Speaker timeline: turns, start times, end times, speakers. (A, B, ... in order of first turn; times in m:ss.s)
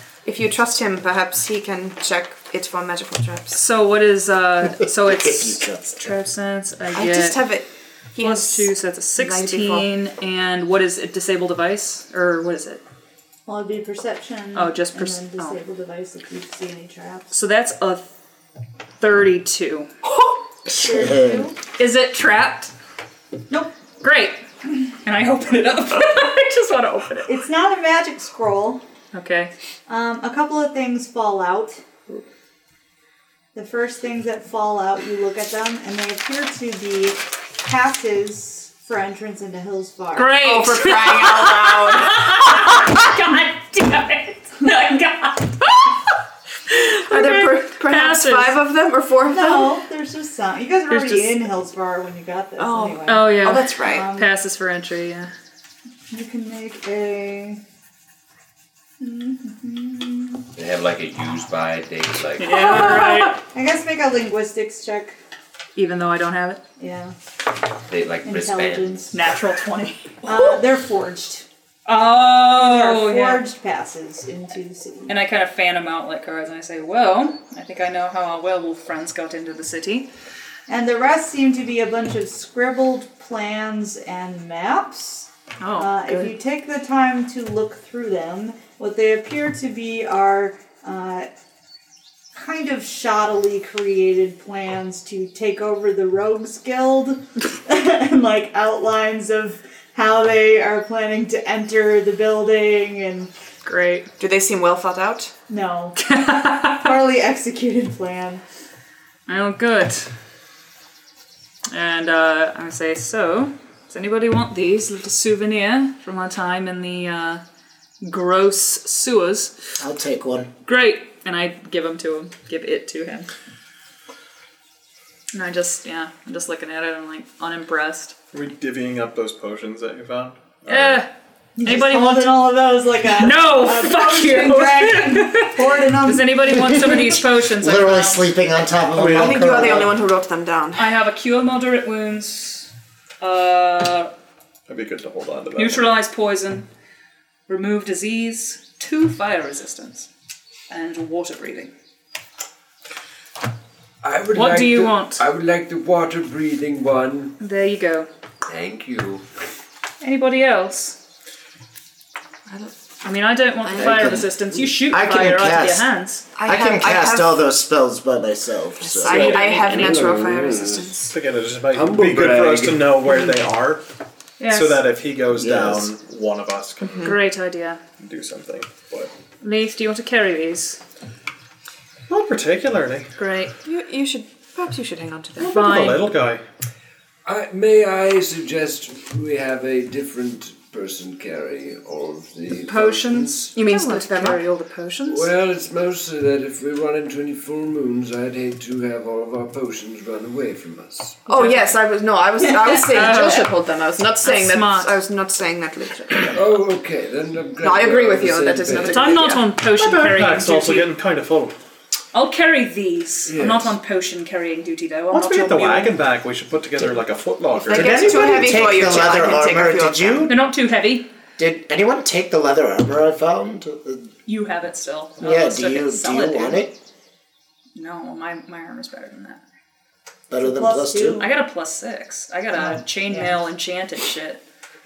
0:00.2-0:03.6 A
0:03.5-0:07.4 B
0:04.6-0:06.2 C
0:06.9-0:09.9 A
0:08.2-0:12.8 B
0:13.4-0:17.3 D
0:14.6-0:15.6 B
0:17.3-0:18.1 B
0:19.0-0:19.9 B
0:20.6-0:21.5 C
0:20.7-0:21.6 D
0:21.8-0:22.7 B
0:24.0-0:24.4 B
0:25.0-0:27.3 B
0:27.3-0:28.8 D
0:29.1-0:29.5 B
0:29.9-0:31.8 D
0:33.6-0:40.4 D
0:40.1-0:45.9 B
0:40.4-0:42.9 A
0:46.8-0:48.6 B
0:46.9-0:49.8 A
0:49.3-0:54.3 D
0:50.9-0:51.4 B
0:52.6-0:54.1 A
0:53.1-0:55.3 B
0:56.1-0:57.6 D
0:59.0-1:00.4 D
1:00.6-1:02.6 E
1:02.4-1:03.4 B
1:02.6-1:03.3 A
1:03.4-1:05.2 D
1:05.8-1:06.6 B
1:06.8-1:07.1 D
1:07.9-1:09.1 E
1:08.2-1:09.1 D
1:09.1-1:10.2 B
1:10.2-1:11.5 D
1:11.9-1:13.4 B
1:12.5-1:15.1 D
1:15.1-1:20.1 B
1:20.7-1:31.3 D
1:25.6-1:26.4 B
1:32.3-1:43.3 D
1:43.6-1:44.1 B
1:44.2-1:45.3 A
1:45.5-1:46.0 D
1:46.0-1:46.9 B
1:46.8-1:48.4 D
1:49.3-1:50.1 B
1:51.7-1:57.4 B
1:58.0-1:59.6 B
1:59.8-2:00.5 C
2:00.6-2:03.3 B
2:05.3-2:08.1 B
2:08.3-2:11.0 F
2:10.7-2:11.1 B
2:11.6-2:16.8 D
2:11.6-2:12.5 B
2:13.1-2:18.2 B
2:16.8-2:20.0 C
2:18.9-2:19.5 F
2:19.0-2:20.9 A
2:20.8-2:22.7 B
2:23.2-2:24.1 B
2:24.7-2:25.9 F
2:25.6-2:26.7 B
2:27.5-2:30.1 B
2:30.7-2:31.7 B
2:34.0-2:37.3 E
2:34.3-2:35.2 B
2:37.4-2:38.1 B
2:38.4-2:39.2 E
2:40.0-2:41.0 B
2:42.5-2:42.7 A
2:43.0-2:46.2 B
2:43.6-2:44.2 A
2:43.8-2:44.3 C
2:44.9-2:45.8 C
2:46.4-2:47.4 A
2:46.4-2:49.4 C
2:48.8-2:51.2 A
2:49.1-2:51.0 E
2:49.1-2:50.0 B
2:51.1-2:53.8 F
2:51.7-2:53.0 E
2:54.4-2:54.9 B
2:54.5-2:57.2 F
2:55.4-2:55.9 C
2:56.8-2:57.2 A
2:57.0-2:57.8 B
2:58.0-2:59.1 F
2:59.4-3:00.8 B
3:02.1-3:03.1 F
3:03.2-3:03.5 B
3:03.6-3:06.0 A
3:05.4-3:06.1 B
3:05.5-3:06.4 F
3:07.2-3:13.5 E
3:12.7-3:15.3 B
3:13.6-3:14.4 A
3:15.1-3:21.2 E
3:21.3-3:26.5 A
3:21.3-3:21.7 B
3:22.6-3:23.5 B
3:24.2-3:24.9 B
3:26.2-3:29.2 E
3:27.6-3:29.5 A
3:28.8-3:30.9 B
3:29.6-3:31.6 F
3:32.1-3:36.0 B
3:33.3-3:33.7 E
3:35.1-3:38.7 F
3:37.5-3:40.3 A
3:37.7-3:40.4 C
3:40.3-3:41.1 B
3:41.4-3:44.1 C
3:44.3-3:46.6 B
3:45.2-3:46.8 C
3:47.7-3:49.4 B
3:50.3-3:51.3 C
3:50.4-3:51.3 D
3:51.2-3:54.4 B
3:52.6-3:53.4 D